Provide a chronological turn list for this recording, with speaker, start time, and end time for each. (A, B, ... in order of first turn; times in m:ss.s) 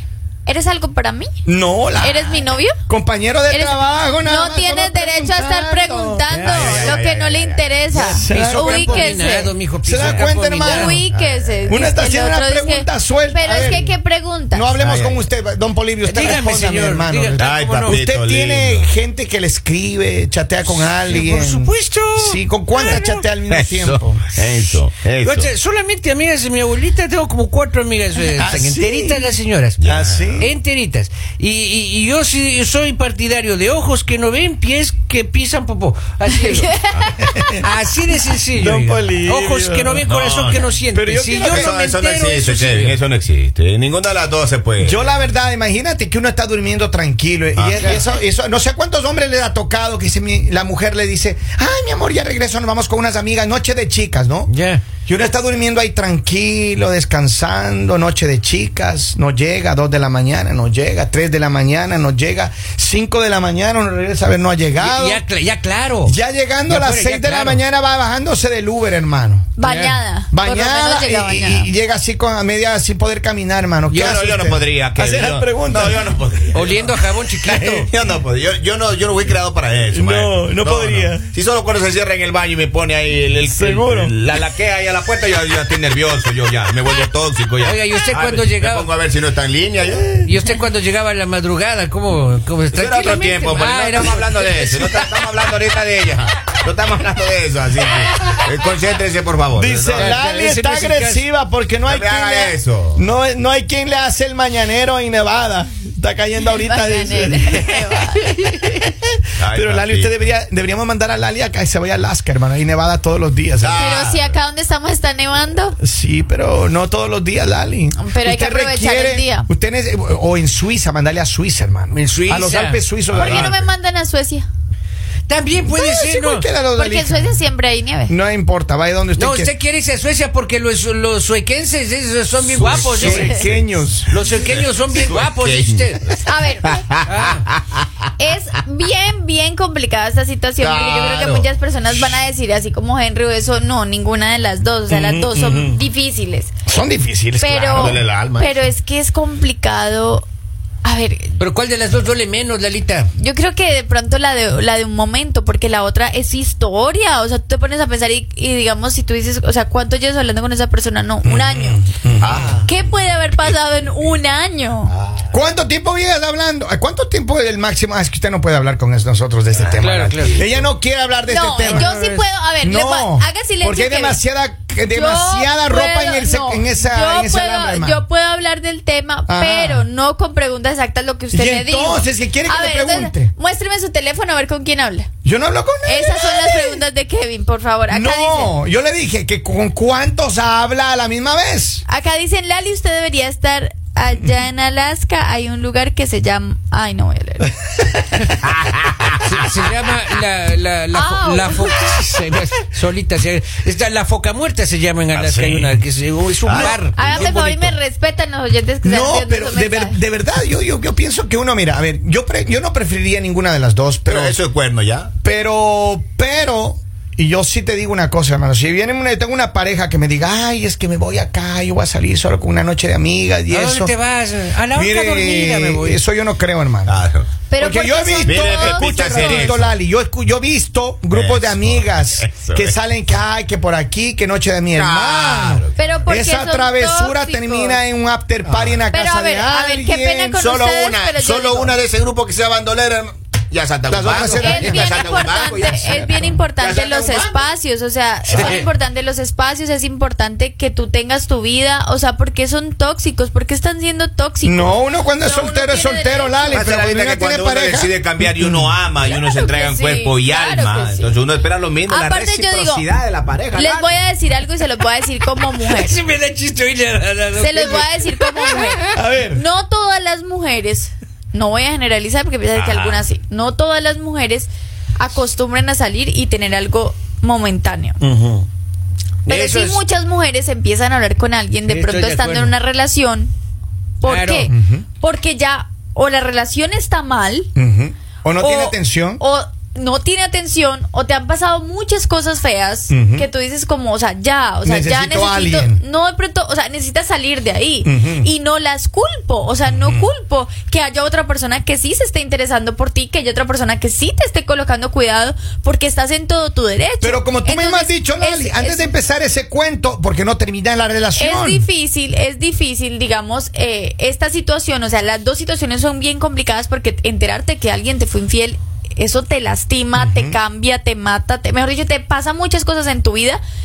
0:00.5-0:01.3 A
0:01.4-0:06.3 B
0:02.0-0:02.8 A
0:03.5-0:09.5 A
0:06.3-0:06.9 C
0:06.4-0:07.8 D
0:07.9-0:11.0 C
0:08.1-0:09.1 B
0:09.8-0:11.0 B
0:10.5-0:14.7 A
0:11.1-0:11.5 D
0:11.7-0:13.9 B
0:14.5-0:24.3 B
0:14.8-0:15.2 D
0:16.0-0:18.1 C
0:17.4-0:18.9 D
0:20.7-0:23.2 C
0:23.5-0:25.5 D
0:25.2-0:36.8 C
0:28.4-0:29.2 B
0:29.8-0:30.5 D
0:29.8-0:30.5 B
0:36.4-0:37.3 A
0:37.3-0:37.6 B
0:37.5-0:43.0 C
0:38.5-0:40.1 B
0:40.0-0:40.7 D
0:40.9-0:41.7 B
0:41.5-0:45.1 D
0:44.8-0:54.5 B
0:47.6-0:48.0 D
0:54.5-0:54.8 C
0:55.1-1:05.2 B
1:04.8-1:06.2 C
1:06.1-1:09.6 B
1:06.7-1:07.6 C
1:09.6-1:11.7 A
1:09.6-1:10.0 C
1:10.3-1:16.0 B
1:13.9-1:30.3 D
1:16.5-1:17.9 C
1:17.5-1:17.8 B
1:19.9-1:21.3 B
1:23.5-1:24.2 B
1:27.6-1:28.9 C
1:30.2-1:35.2 C
1:32.7-1:40.2 D
1:39.5-1:47.7 B
1:40.0-1:41.2 C
1:41.9-1:43.0 D
1:46.6-1:48.7 A
1:49.4-1:50.1 D
1:49.5-1:53.8 B
1:53.6-1:54.4 D
1:53.8-1:55.8 A
1:55.8-2:03.6 B
1:58.0-1:59.5 A
2:01.9-2:02.8 C
2:03.1-2:04.5 A
2:05.3-2:06.5 C
2:05.7-2:07.4 B
2:06.7-2:08.2 A
2:08.1-2:09.5 B
2:09.2-2:13.4 C
2:12.5-2:13.6 D
2:12.7-2:14.1 B
2:13.0-2:13.4 A
2:14.1-2:16.2 C
2:14.4-2:17.9 D
2:16.2-2:16.9 A
2:17.0-2:17.5 C
2:18.2-2:26.5 A
2:20.6-2:21.5 D
2:24.9-2:25.8 B
2:26.7-2:28.0 B
2:27.4-2:30.2 A
2:27.7-2:28.7 D
2:30.8-2:31.4 A
2:31.4-2:33.1 C
2:33.2-2:41.8 A
2:41.2-2:42.6 B
2:42.2-2:42.8 D
2:42.6-2:44.9 A
2:44.9-2:45.3 D
2:45.3-2:58.0 B
2:49.8-2:50.4 C
2:51.3-2:54.2 A
2:54.9-3:05.1 A
2:59.3-2:59.9 B
3:01.3-3:03.3 B
3:05.2-3:06.8 B
3:05.8-3:08.5 A
3:07.9-3:11.8 B
3:11.9-3:17.5 A
3:18.4-3:19.3 D
3:19.2-3:27.8 C
3:20.9-3:21.7 A
3:25.1-3:25.7 D
3:26.2-3:26.8 B
3:26.5-3:27.3 D
3:26.9-3:30.0 A
3:28.8-3:34.4 B
3:34.1-3:35.1 D
3:35.2-3:43.9 B
3:43.5-3:46.0 C
3:44.7-3:46.9 B
3:46.9-3:47.3 D
3:47.5-3:49.5 A
3:47.6-4:00.4 B
3:48.2-3:49.8 D
3:51.1-3:52.7 D
3:54.7-3:55.7 D
3:55.8-3:57.8 A
3:58.4-3:58.8 D
3:58.9-4:01.8 A
4:00.4-4:07.5 D
4:03.9-4:05.0 B
4:04.3-4:16.6 A
4:08.3-4:08.6 D
4:08.4-4:08.6 C
4:14.4-4:18.7 B
4:16.5-4:24.0 D
4:19.0-4:21.2 A
4:21.9-4:22.9 A
4:23.5-4:26.0 A
4:25.4-4:29.0 C
4:27.4-4:38.0 A
4:28.9-4:29.4 B
4:32.6-4:33.0 C
4:38.0-4:38.5 C
4:39.3-4:39.8 C
4:39.3-4:43.3 A
4:41.7-4:42.6 C
4:44.0-4:47.5 A
4:44.0-4:44.5 C
4:44.5-4:44.9 B
4:47.6-4:49.2 B
4:48.4-5:08.9 A
4:52.9-4:53.3 B
4:54.6-4:55.8 B
4:57.8-4:58.3 B
4:59.7-5:00.1 B
5:07.0-5:11.7 B
5:11.2-5:23.4 A
5:20.0-5:20.4 B